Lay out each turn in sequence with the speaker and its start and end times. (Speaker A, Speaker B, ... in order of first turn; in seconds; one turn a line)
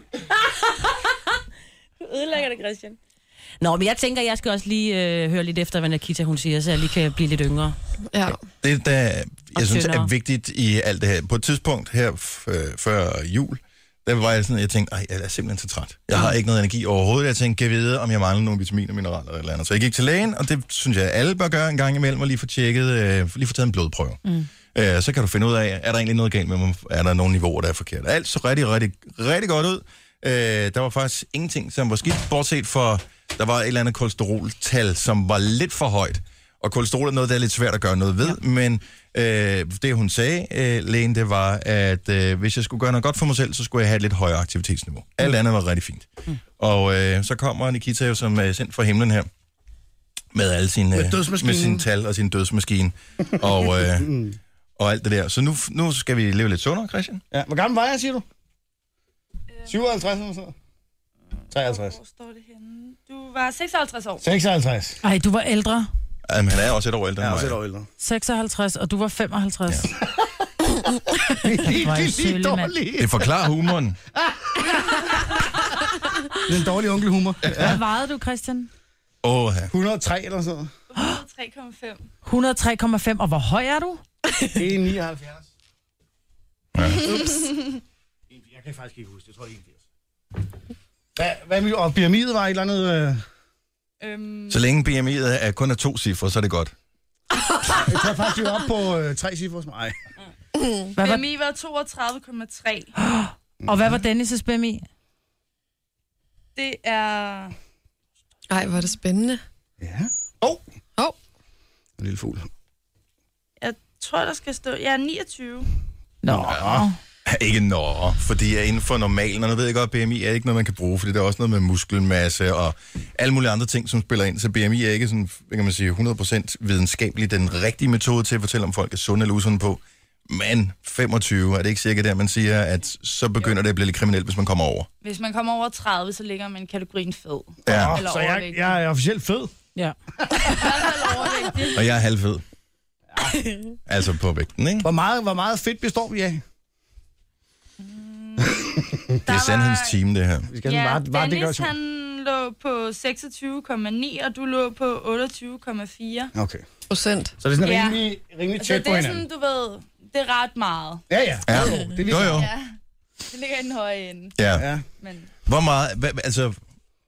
Speaker A: 3.6-7.8
Speaker B: 8.1-8.4
Speaker C: 8.6-24.2
Speaker A: 9.5-10.1
Speaker C: 24.7-49.3
Speaker C: 50.3-54.1
Speaker D: 50.9-51.9
Speaker D: 53.3-54.4
Speaker C: 54.8-57.2
Speaker D: 57.3-58.2
Speaker D: 59.6-60.5
Speaker E: 61.5-64.2
Speaker D: 61.5-62.0
Speaker D: 64.2-65.0
Speaker F: 65.0-65.9
Speaker C: 66.3-67.6
Speaker D: 67.2-67.9
Speaker F: 68.0-69.9
Speaker D: 71.3-73.3
Speaker F: 71.6-72.7
Speaker C: 73.0-74.0
Speaker D: 74.1-75.1
Speaker D: 76.3-77.8
Speaker C: 77.5-77.8
Speaker F: 77.5-78.7
Speaker C: 79.2-79.7
Speaker D: 79.7-80.7
Speaker E: 80.9-82.0
Speaker F: 82.2-84.0
Speaker D: 84.5-85.5
Speaker C: 86.7-87.4
Speaker D: 88.3-89.8
Speaker D: 91.2-93.2
Speaker E: 94.0-94.7
Speaker C: 94.5-96.7
Speaker D: 97.6-100.0
Speaker B: 100.5-100.9
Speaker F: 101.0-101.2
Speaker E: 101.0-102.9
Speaker F: 103.0-104.8
Speaker D: 103.6-104.0
Speaker E: 106.5-107.5
Speaker B: 108.5-109.4
Speaker D: 109.8-110.6
Speaker D: 112.0-112.5
Speaker E: 113.6-115.7
Speaker F: 116.2-117.0
Speaker D: 116.3-116.9
Speaker C: 117.2-134.9
Speaker E: 135.0-138.8
Speaker C: 137.6-138.0
Speaker D: 137.7-139.5
Speaker D: 140.2-141.2
Speaker E: 140.4-141.9
Speaker C: 141.7-142.4
Speaker D: 143.1-143.4
Speaker C: 143.8-144.9
Speaker D: 144.8-146.4
Speaker E: 147.8-150.0
Speaker D: 148.6-149.2
Speaker C: 149.3-150.5
Speaker D: 150.5-151.7
Speaker E: 150.6-156.3
Speaker D: 156.3-156.6
Speaker B: 156.9-157.3
Speaker D: 157.4-159.2
Speaker E: 157.6-158.0
Speaker E: 158.6-161.0
Speaker D: 161.1-162.5
Speaker C: 161.5-162.5
Speaker E: 162.2-162.7
Speaker E: 163.3-164.3
Speaker C: 164.4-164.7
Speaker D: 164.5-164.8
Speaker E: 164.9-165.3
Speaker C: 165.4-166.6